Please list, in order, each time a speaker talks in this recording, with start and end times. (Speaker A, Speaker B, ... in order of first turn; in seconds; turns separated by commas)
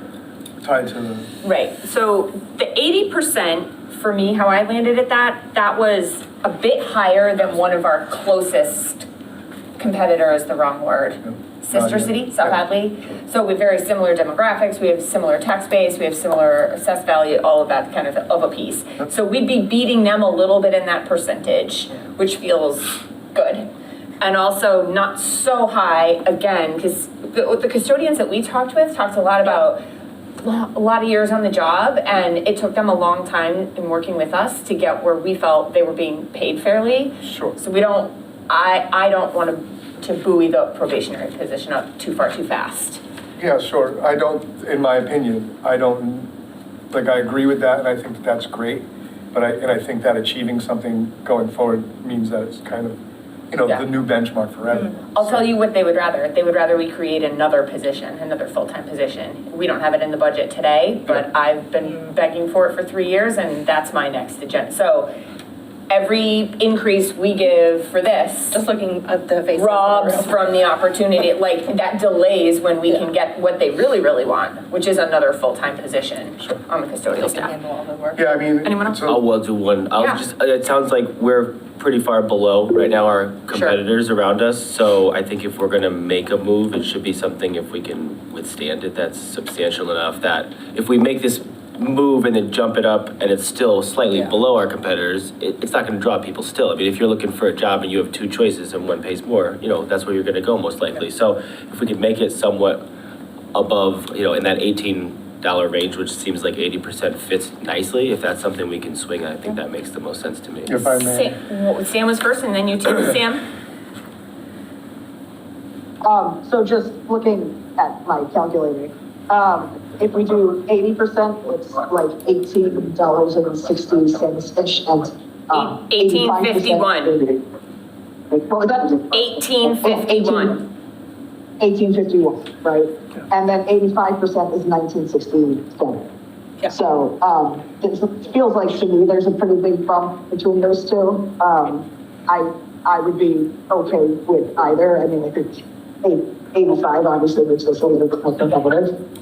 Speaker A: 0.6-1.3, Speaker B: 1.4-9.1, Speaker B: 9.8-23.7, Speaker A: 11.2-12.6, Speaker B: 24.2-29.8, Speaker B: 30.4-43.0, Speaker A: 37.2-37.5, Speaker A: 43.4-46.3, Speaker A: 46.9-53.0, Speaker A: 53.5-55.5, Speaker B: 55.1-65.1, Speaker B: 65.9-68.6, Speaker C: 68.5-70.5, Speaker B: 69.5-77.5, Speaker C: 77.2-78.3, Speaker A: 78.2-79.2, Speaker B: 78.6-79.2, Speaker D: 79.1-102.8, Speaker B: 80.0-80.2, Speaker B: 83.5-83.8, Speaker D: 103.5-110.7, Speaker A: 110.7-111.4, Speaker B: 110.8-113.4, Speaker E: 116.0-127.4, Speaker B: 125.5-127.2, Speaker E: 128.3-130.6, Speaker B: 129.1-130.6, Speaker E: 131.6-136.0, Speaker E: 136.6-148.9